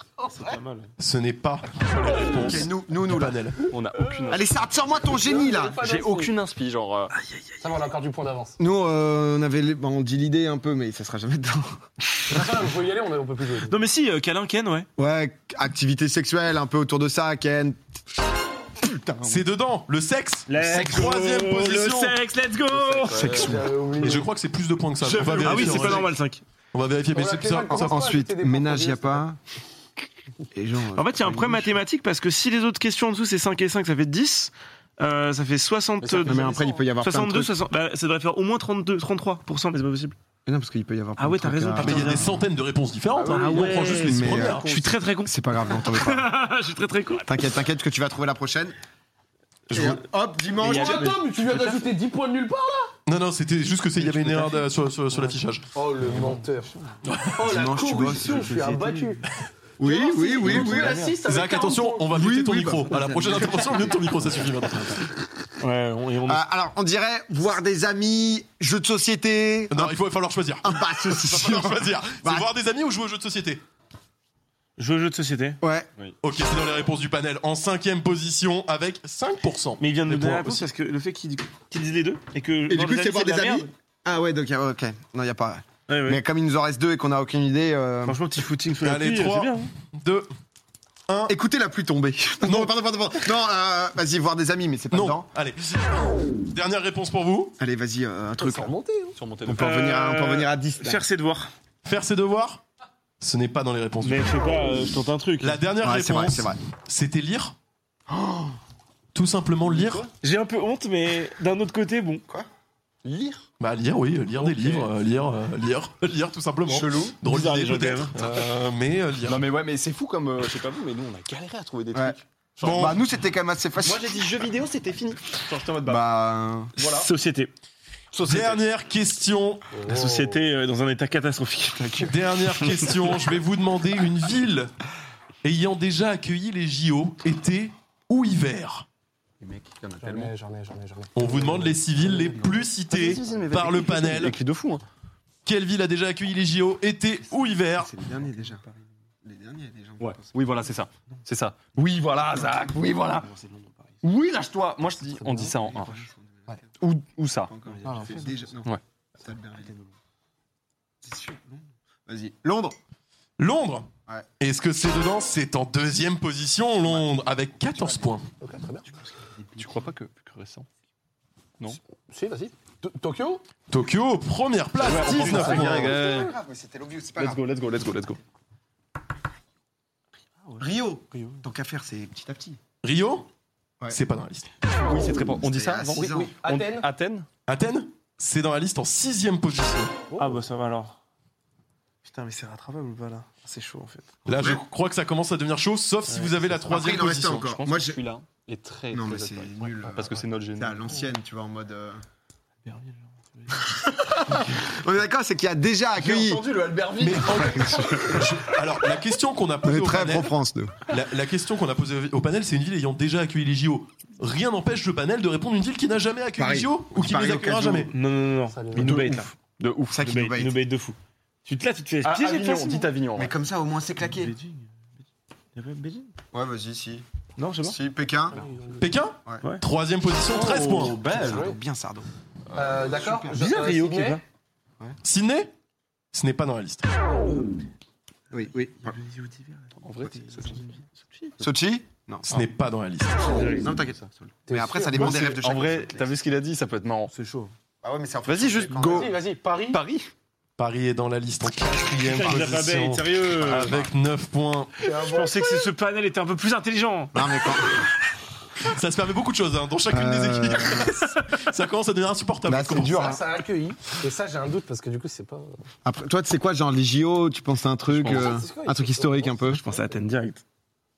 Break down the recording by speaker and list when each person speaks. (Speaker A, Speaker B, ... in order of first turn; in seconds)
Speaker A: 0.3-0.9, 7.2-7.5, 13.7-14.9, 20.5-23.5, 25.0-26.4, 30.9-40.1, 41.2-42.3, 43.3-47.3, 50.6-51.7, 56.0-56.8, 58.3-59.1, 60.4-61.0, 65.6-66.4, 74.8-75.6, 79.8-83.7, 85.9-86.2, 88.0-89.7, 99.6-101.5, 104.0-105.6, 110.2-112.2, 117.2-118.2, 126.8-127.5, 129.8-132.8, 153.3-153.7, 157.7-158.4, 180.4-181.4, 190.2-190.9, 192.0-194.2, 196.1-196.5, 202.6-203.7, 217.9-219.3, 220.0-222.9, 224.1-224.6, 225.5-226.1, 227.4-227.8, 233.3-234.2, 238.8-241.3, 243.2-243.7, 247.1-247.5, 252.0-253.8, 254.9-257.6, 267.9-268.3, 269.5-270.4
Speaker B: 1.0-3.6, 19.2-22.2, 24.0-26.1, 26.7-28.2, 41.8-44.7, 49.7-50.0, 53.0-55.7, 57.0-57.4, 61.2-65.1, 69.7-73.6, 76.2-80.7, 88.8-90.3, 91.1-91.3, 92.4-92.7, 94.9-97.5, 101.8-102.6, 103.2-104.4, 105.4-107.5, 109.1-110.1, 113.6-119.5, 122.6-123.0, 128.2-129.7, 132.0-134.7, 135.4-138.8, 141.1-144.3, 145.4-147.9, 163.4-168.2, 173.7-175.9, 182.8-183.2, 183.9-184.5, 187.5-190.0, 194.2-197.4, 207.0-210.3, 210.8-217.9, 228.8-231.0, 235.0-235.5, 236.1-236.8, 242.3-243.4, 250.6-254.7, 258.6-263.1
Speaker C: 2.3-3.5, 4.3-5.8, 8.6-11.8, 15.0-17.8, 18.8-19.4, 23.1-23.7, 27.7-29.4, 30.5-31.8, 36.2-37.5, 40.5-42.4, 44.0-44.7, 45.2-46.3, 47.2-48.7, 49.7-51.2, 57.4-58.8, 59.8-61.1, 62.1-63.7, 66.2-69.9, 70.6-72.5, 75.6-75.9, 82.7-88.2, 91.3-95.3, 97.6-98.7, 99.4-101.0, 105.8-106.6, 108.1-108.5, 116.7-117.2, 121.9-124.1, 125.8-126.7, 147.8-148.6, 149.2-150.3, 155.5-156.7, 157.5-159.7, 161.0-162.8, 167.7-168.0, 175.1-177.4, 180.6-182.6, 185.4-186.3, 196.6-198.0, 198.9-202.0, 203.7-206.5, 207.0-208.4, 209.6-210.8, 216.4-217.9, 219.9-220.5, 223.2-224.3, 226.3-227.0, 227.6-228.4, 230.9-233.4, 238.3-239.0, 241.4-242.4, 243.5-246.1, 247.8-249.1, 257.1-257.8, 259.9-260.9, 262.4-263.2, 265.8-269.6
Speaker D: 3.6-7.1, 22.8-23.7, 36.0-36.7, 43.1-44.9, 99.1-99.9, 109.6-110.1, 113.0-113.4, 114.5-114.8, 119.2-123.0, 123.8-126.0, 126.8-127.1, 128.1-128.6, 139.4-140.3, 142.2-144.8, 150.0-153.3, 154.0-156.1, 156.8-157.6, 169.6-170.7, 174.8-176.3, 177.2-178.2, 184.6-187.3, 196.7-200.9, 206.0-207.6, 218.7-220.0, 222.0-223.3, 230.3-231.5, 239.8-240.7, 243.4-244.1, 244.9-247.1, 248.2-250.1
Speaker E: 5.0-6.3, 7.6-8.6, 12.3-13.8, 23.2-24.3, 27.1-29.2, 50.6-52.9, 55.7-56.7, 57.3-59.2, 59.8-62.1, 98.4-99.2, 129.7-130.4, 140.0-142.3, 155.2-155.5, 157.8-158.1, 168.4-168.9, 172.1-173.4, 175.2-176.0, 185.9-186.9, 218.5-219.0, 228.3-228.9, 231.1-231.6, 232.5-234.2, 244.5-245.2, 248.8-249.8, 254.8-255.7, 262.8-265.6, 268.1-269.9